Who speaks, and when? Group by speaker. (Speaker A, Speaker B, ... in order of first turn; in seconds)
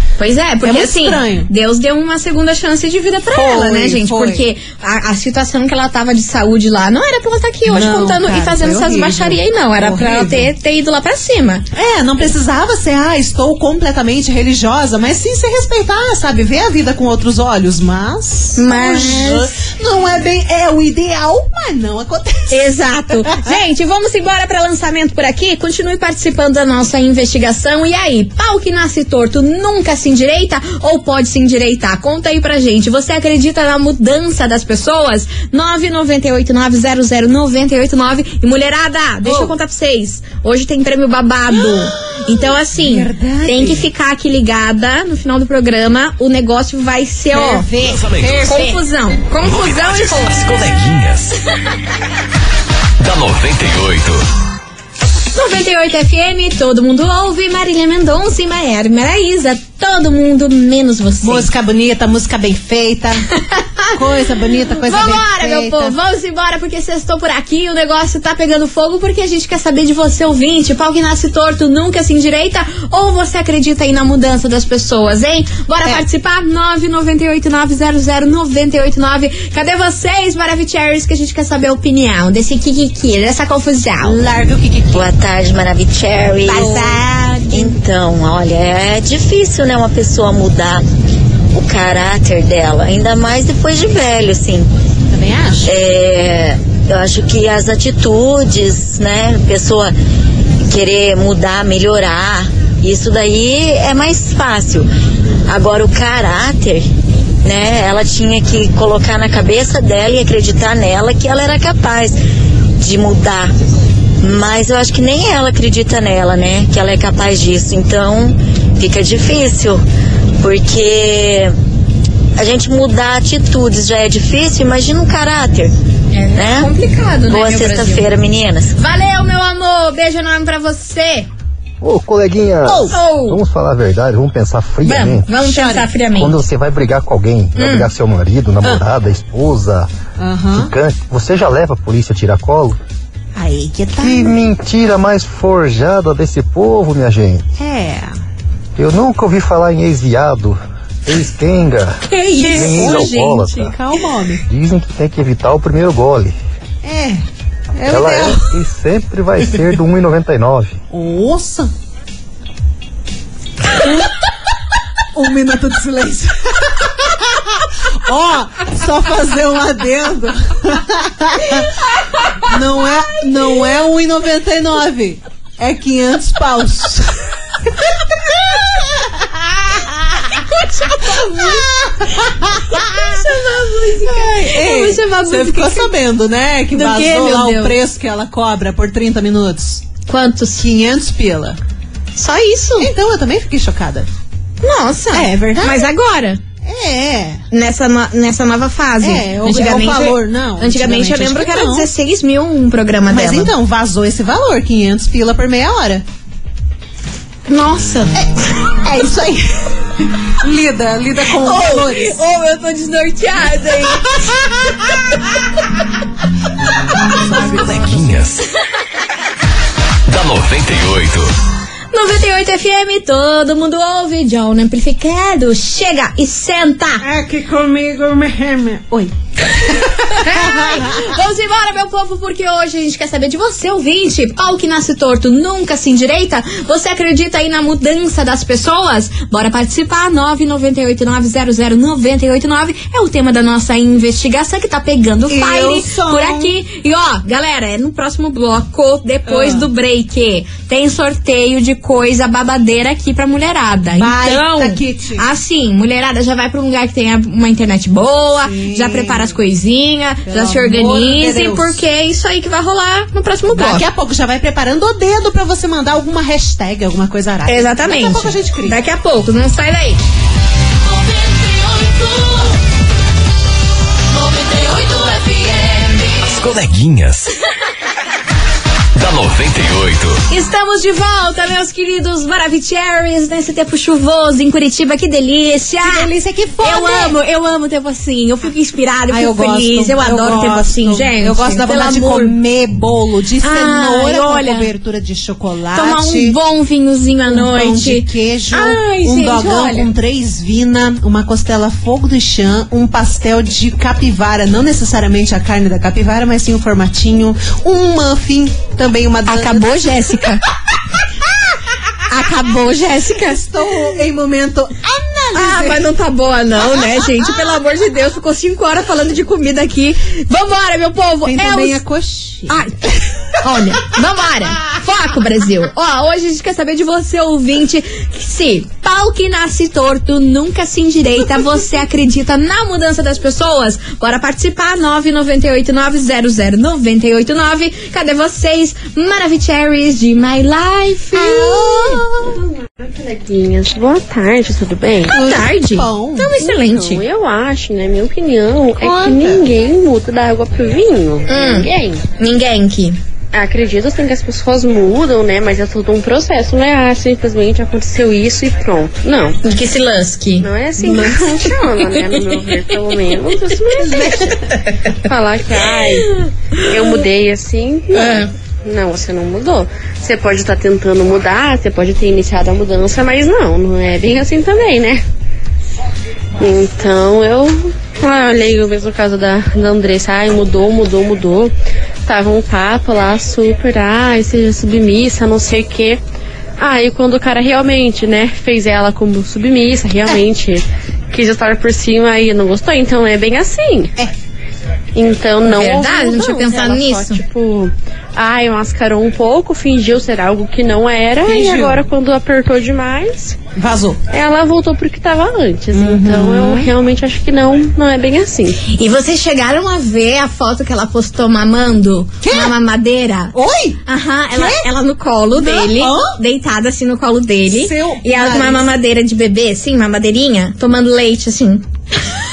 Speaker A: 0.2-11.6, 18.6-19.5, 22.5-47.7, 48.5-50.3, 55.3-61.5, 63.5-64.0, 64.8-84.2, 86.5-87.7, 126.1-128.1, 128.8-131.3, 132.9-133.4, 134.8-136.4, 137.6-137.9, 152.1-153.8, 180.5-181.6, 182.7-185.9, 186.7-187.8, 190.1-190.6, 192.2-192.9, 194.6-196.4, 197.5-203.5, 207.5-208.2, 211.4-214.2, 221.9-227.0, 230.1-263.9, 267.5-270.0, 271.3-272.2, 274.2-276.0, 280.3-286.1, 286.6-292.3, 293.4-294.7, 295.7-299.9, 309.3-310.4, 312.1-313.4, 315.4-321.8, 322.5-322.8, 323.4-341.9, 345.1-347.0, 351.3-353.0, 359.4-360.5, 368.0-368.3, 395.4-397.2, 408.7-413.4, 413.9-421.7
Speaker B: 0.6-1.5, 3.3-4.5, 7.7-10.5, 11.8-22.6, 39.2-39.5, 41.6-43.9, 47.3-48.8, 61.2-63.3, 64.0-65.9, 84.0-85.0, 86.5-87.6, 95.1-95.7, 132.7-133.0, 135.4-135.9, 140.2-140.7, 143.4-144.4, 147.6-148.1, 152.4-154.4, 156.8-157.2, 157.8-158.5, 160.9-161.7, 163.7-164.1, 165.1-171.7, 172.4-177.1, 177.8-180.3, 181.0-183.2, 184.0-189.9, 190.6-191.6, 192.8-194.1, 195.1-195.9, 196.6-197.4, 199.0-201.9, 203.1-206.0, 208.7-212.2, 217.1-218.2, 227.0-231.1, 245.3-246.5, 249.3-249.7, 253.9-255.2, 258.4-259.4, 260.3-261.8, 263.5-268.8, 285.8-287.2, 289.1-296.4, 297.3-310.0, 313.2-315.9, 321.2-322.6, 341.1-342.4, 345.1-346.4, 348.8-349.5, 360.8-361.2, 363.8-364.5, 401.2-401.8, 403.6-404.0, 405.7-406.7, 412.2-412.6, 413.3-413.8, 414.3-414.6, 415.4-416.1, 417.5-418.7
Speaker C: 47.8-48.7, 49.4-51.4, 53.0-54.2, 217.2-218.4, 220.1-221.3, 276.2-277.3, 278.9-280.2
Speaker D: 84.9-86.8, 87.5-90.8, 91.5-94.7, 95.6-99.9, 100.7-104.9, 105.5-106.9, 107.4-112.2, 112.8-113.5, 114.2-119.8, 120.4-121.5, 122.4-125.7, 126.3-126.7, 127.3-128.8
Speaker E: 131.8-135.3, 136.1-139.9, 140.5-142.8, 144.0-147.4, 148.8-153.7, 154.5-156.4, 157.9-160.8
Speaker F: 342.8-345.1, 346.4-352.0, 353.3-359.4, 360.4-364.4, 365.1-375.0, 376.4-381.5, 382.1-386.0, 386.6-393.9, 394.9-403.4, 404.1-408.6